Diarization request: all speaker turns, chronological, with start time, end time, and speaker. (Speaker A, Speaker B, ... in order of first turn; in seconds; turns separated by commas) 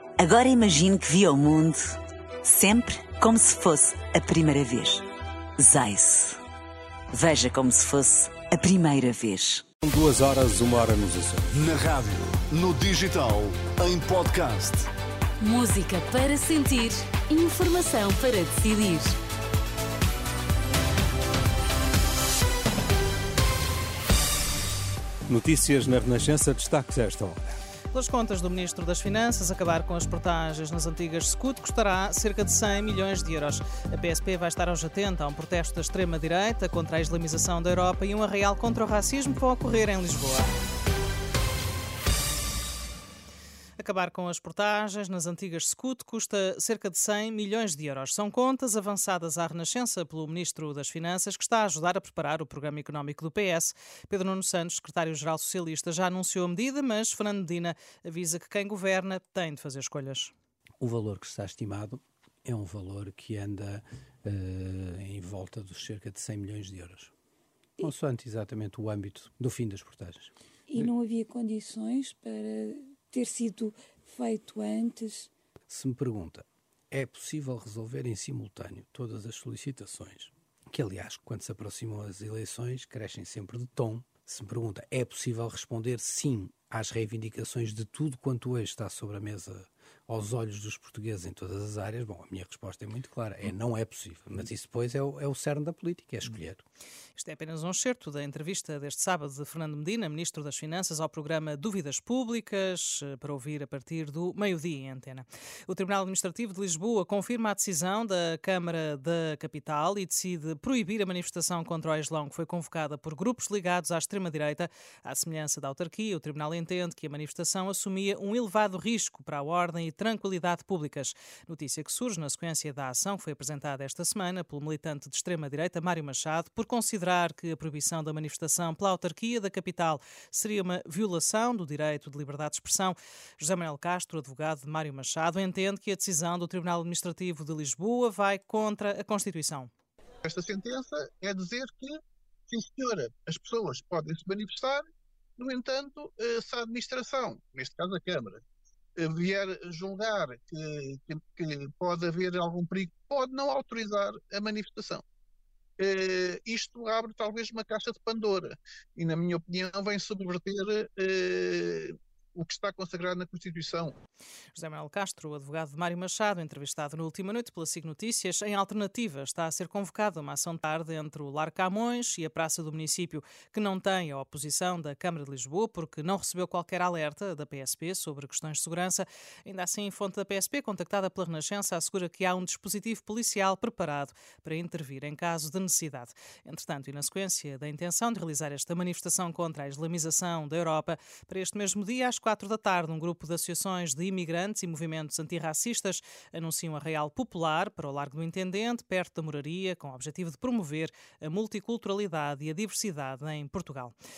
Speaker A: 0.2-5.0, Speaker A: 5.6-6.4, Speaker A: 7.1-9.6, Speaker B: 9.8-11.5, Speaker C: 11.5-14.9, Speaker D: 15.4-19.1, Speaker B: 25.3-27.4, Speaker E: 27.9-40.5, Speaker E: 43.8-60.3, Speaker F: 60.8-67.1, Speaker F: 67.8-70.9, Speaker G: 70.8-72.5, Speaker G: 73.1-75.3, Speaker F: 75.7-96.6, Speaker E: 97.2-139.7, Speaker H: 140.2-141.9, Speaker H: 142.5-144.8, Speaker H: 145.4-148.4, Speaker H: 149.0-155.0, Speaker H: 155.8-163.9, Speaker E: 164.5-203.9